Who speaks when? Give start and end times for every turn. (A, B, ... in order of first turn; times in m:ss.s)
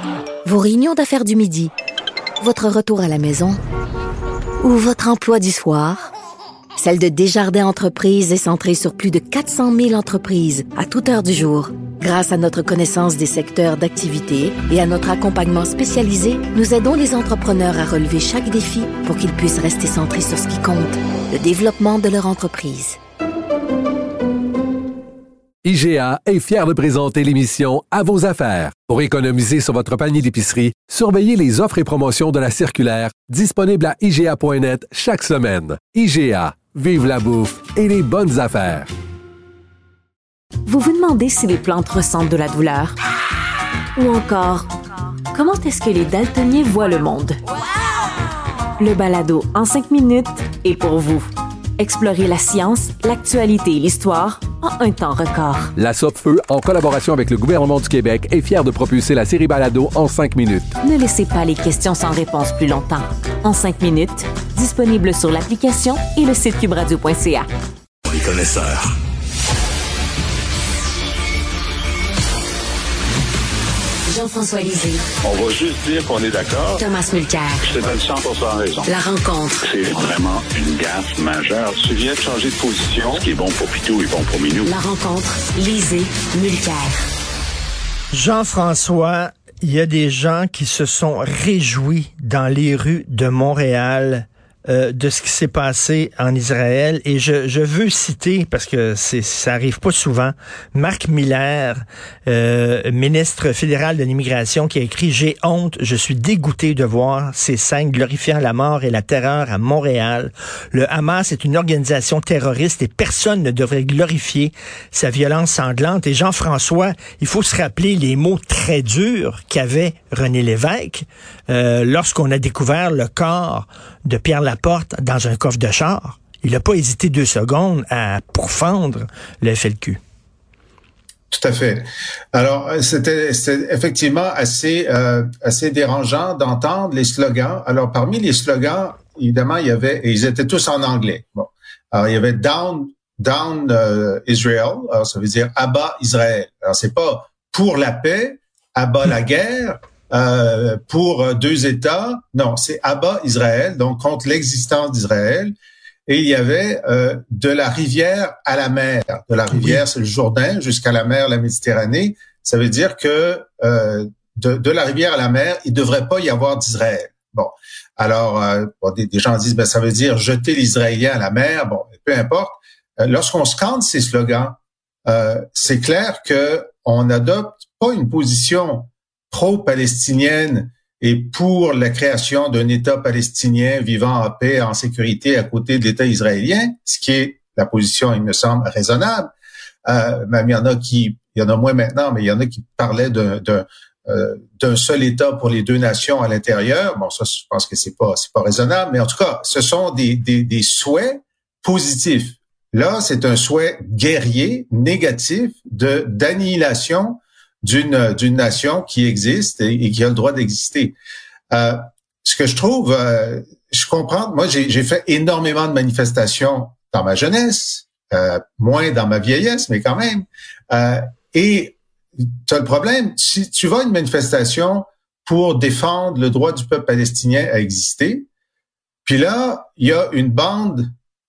0:00.4-0:01.7 A
0:02.4-0:03.6 A
0:04.6-0:06.1 A
0:06.8-0:23.0 A
0:25.6-0:38.9 B
0:40.6-0:43.0 C
0:44.0-0:44.7 C
0:45.3-0:47.4 C
0:48.8-0:51.3 C
0:51.8-0:55.7 C
0:55.8-1:00.7 B
1:00.8-1:07.5 C
1:14.1-1:15.0 C
1:15.3-1:16.8 D
1:16.8-1:17.7 C
1:17.7-1:18.9 D
1:18.8-1:19.6 C
1:19.6-1:24.7 D
1:24.7-1:27.0 C
1:28.1-2:10.0 E
2:11.3-2:35.5 F
2:36.1-3:09.3 F
2:39.5-2:39.8 E
3:09.8-3:31.0 F
3:31.5-3:41.8 F
3:42.5-3:48.3 F
3:49.0-3:50.9 F